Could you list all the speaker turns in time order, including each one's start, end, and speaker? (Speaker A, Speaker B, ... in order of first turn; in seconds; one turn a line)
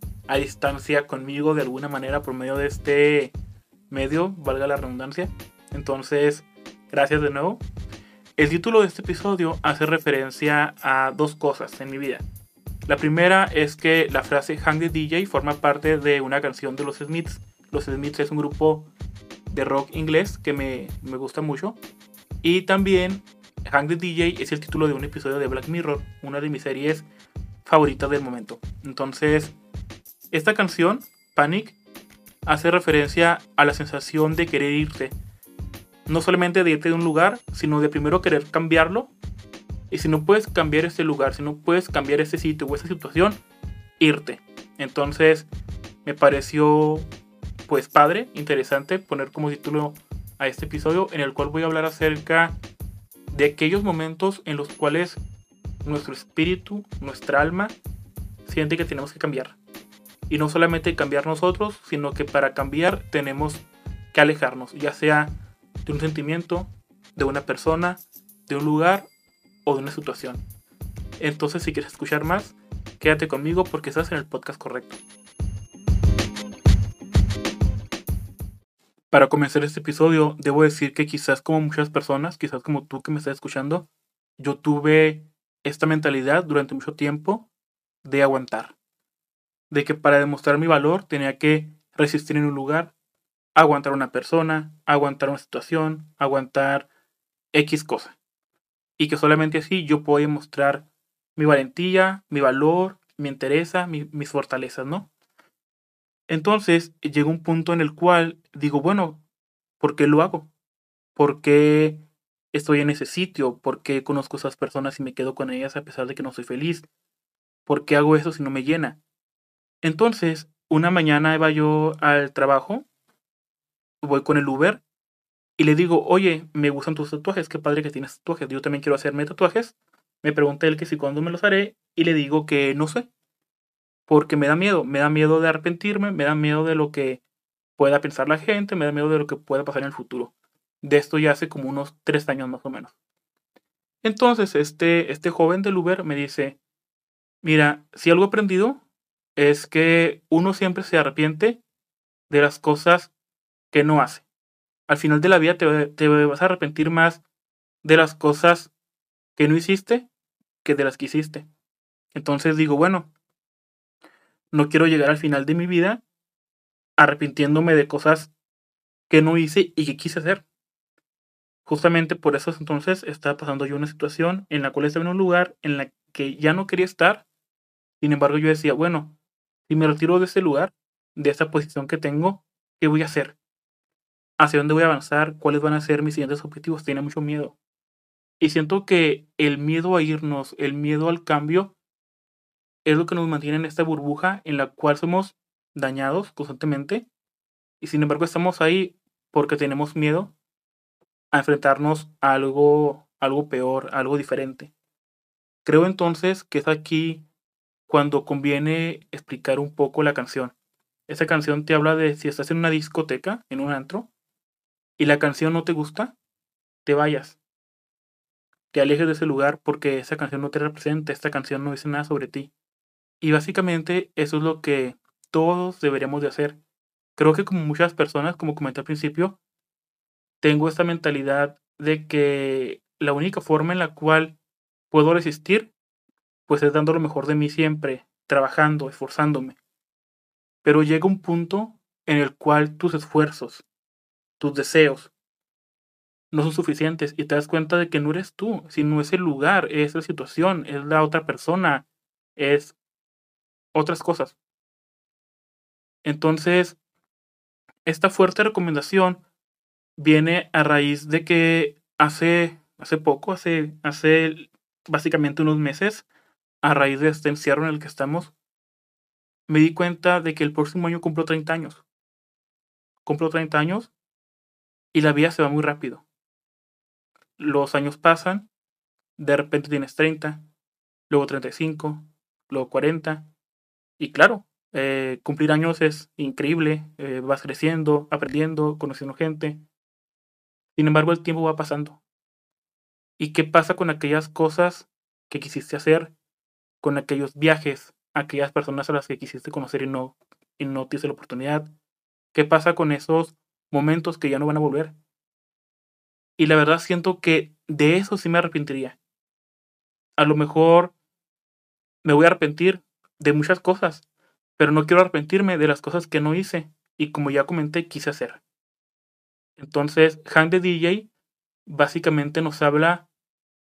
Speaker A: 0.3-3.3
Speaker A: 3.9-7.6
Speaker A: 8.4-12.3
Speaker A: 12.9-18.9
Speaker A: 19.5-21.8
Speaker A: 22.4-27.1
Speaker A: 27.6-29.6
Speaker A: 30.3-31.8
Speaker A: 32.5-35.1
Speaker A: 36.1-39.1
Speaker A: 39.9-43.4
Speaker A: 44.0-45.5
Speaker A: 46.0-47.1
Speaker A: 47.7-52.6
Speaker A: 53.3-55.2
Speaker A: 55.8-57.8
Speaker A: 58.4-59.6
Speaker A: 60.3-69.1
Speaker A: 69.6-70.4
Speaker A: 71.2-75.0
Speaker A: 79.1-87.5
Speaker A: 88.0-88.7
Speaker A: 89.7-92.9
Speaker A: 93.5-96.9
Speaker A: 97.5-98.2
Speaker A: 99.0-105.1
Speaker A: 106.3-109.2
Speaker A: 109.8-110.5
Speaker A: 111.1-116.9
Speaker A: 117.7-119.0
Speaker A: 119.8-122.9
Speaker A: 124.0-124.8
Speaker A: 125.6-133.1
Speaker A: 134.1-137.2
Speaker A: 137.8-142.9
Speaker A: 144.0-146.6
Speaker A: 147.4-148.8
Speaker A: 149.4-151.6
Speaker A: 152.3-153.1
Speaker A: 153.7-154.3
Speaker A: 154.9-157.2
Speaker A: 157.8-158.7
Speaker A: 159.3-160.1
Speaker A: 160.6-161.5
Speaker A: 162.1-163.1
Speaker A: 164.5-166.0
Speaker A: 167.0-168.3
Speaker A: 169.1-170.4
Speaker A: 171.6-177.2
Speaker A: 178.0-183.4
Speaker A: 184.4-187.6
Speaker A: 188.4-191.8
Speaker A: 192.8-197.1
Speaker A: 197.8-200.3
Speaker A: 201.3-204.7
Speaker A: 205.6-207.3
Speaker A: 207.9-210.5
Speaker A: 211.1-214.1
Speaker A: 215.0-216.2
Speaker A: 216.8-217.4
Speaker A: 218.7-222.5
Speaker A: 223.2-226.6
Speaker A: 227.2-229.4
Speaker A: 230.4-234.4
Speaker A: 234.9-235.7
Speaker A: 236.5-239.6
Speaker A: 240.6-243.6
Speaker A: 244.4-245.1
Speaker A: 246.3-252.8
Speaker A: 253.7-254.4
Speaker A: 256.0-256.8
Speaker A: 257.9-259.2
Speaker A: 260.0-266.1
Speaker A: 266.6-268.3
Speaker A: 269.5-271.8
Speaker A: 273.0-273.9
Speaker A: 274.9-276.1
Speaker A: 277.4-278.5
Speaker A: 279.2-280.4
Speaker A: 281.1-283.3
Speaker A: 284.0-289.6
Speaker A: 290.7-292.0
Speaker A: 293.2-296.1
Speaker A: 296.8-301.7
Speaker A: 302.3-304.9
Speaker A: 306.4-309.0
Speaker A: 310.2-310.9
Speaker A: 312.0-314.0
Speaker A: 314.6-318.4
Speaker A: 319.6-321.1
Speaker A: 321.6-323.1